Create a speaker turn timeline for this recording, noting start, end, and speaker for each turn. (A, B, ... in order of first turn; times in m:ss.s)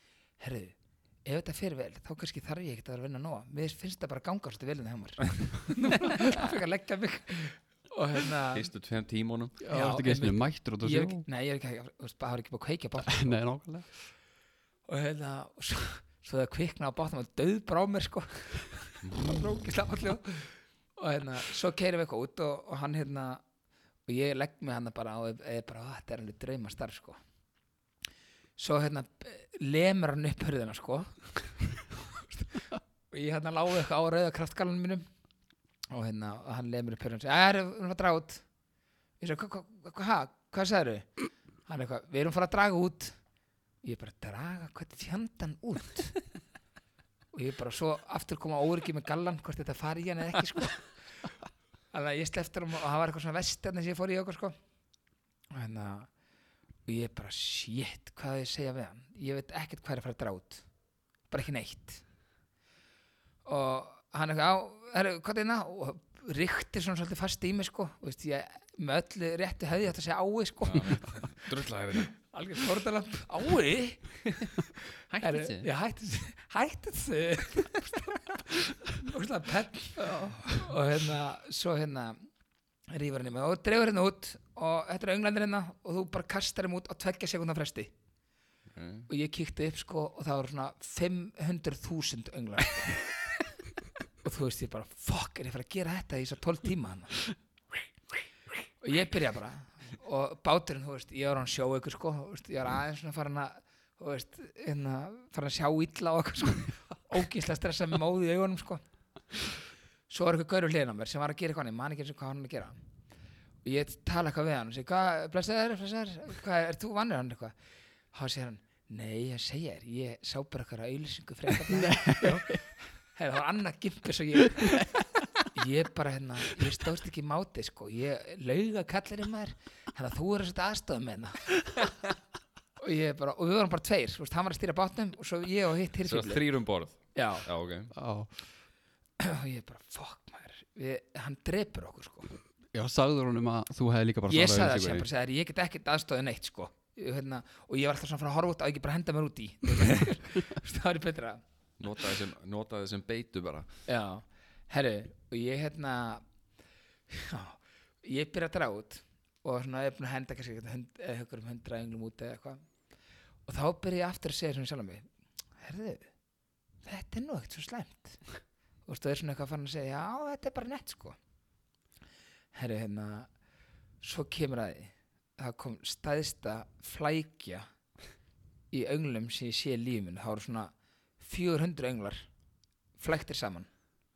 0:00.4-0:08.7 A
0:08.5-0:09.6 B
0:09.6-0:13.4 A
0:09.7-0:11.3 C
0:13.1-0:13.9 C
0:14.9-0:23.4 A
0:24.1-0:27.2 A
0:28.6-0:31.2 A
0:33.1-0:35.1 A
0:35.9-0:38.4 A
0:39.2-0:41.1 A
0:41.7-0:43.2 A
0:43.8-0:46.2 A
0:47.3-0:50.9 A
0:51.9-0:54.6 A
0:55.5-0:56.1 A
0:56.9-1:00.6 A
1:01.3-1:02.0 A
1:03.4-1:11.1 A
1:10.6-1:12.1 B
1:12.2-1:14.2 A
1:15.1-1:15.7 B
1:15.2-1:22.3 A
1:22.9-1:27.9 A
1:28.7-1:29.1 B
1:29.1-1:33.1 A
1:34.2-1:37.2 A
1:38.8-1:48.8 A
1:50.1-1:52.8 A
1:53.6-1:57.6 A
1:58.1-2:02.6 A
2:01.8-2:02.6 C
2:03.1-2:04.9 A
2:05.5-2:11.5 A
2:12.8-2:16.4 A
2:16.0-2:17.9 B
2:17.1-2:17.5 A
2:17.9-2:18.4 C
2:19.2-2:22.3 A
2:22.7-2:25.1 C
2:24.3-2:31.4 A
2:31.8-2:33.7 B
2:33.9-2:36.2 A
2:37.1-2:42.6 A
2:43.5-2:46.1 A
2:46.8-2:48.2 A
2:48.9-2:51.2 A
2:52.5-2:53.3 A
2:54.0-2:57.7 A
2:58.7-3:02.3 A
3:03.0-3:03.7 A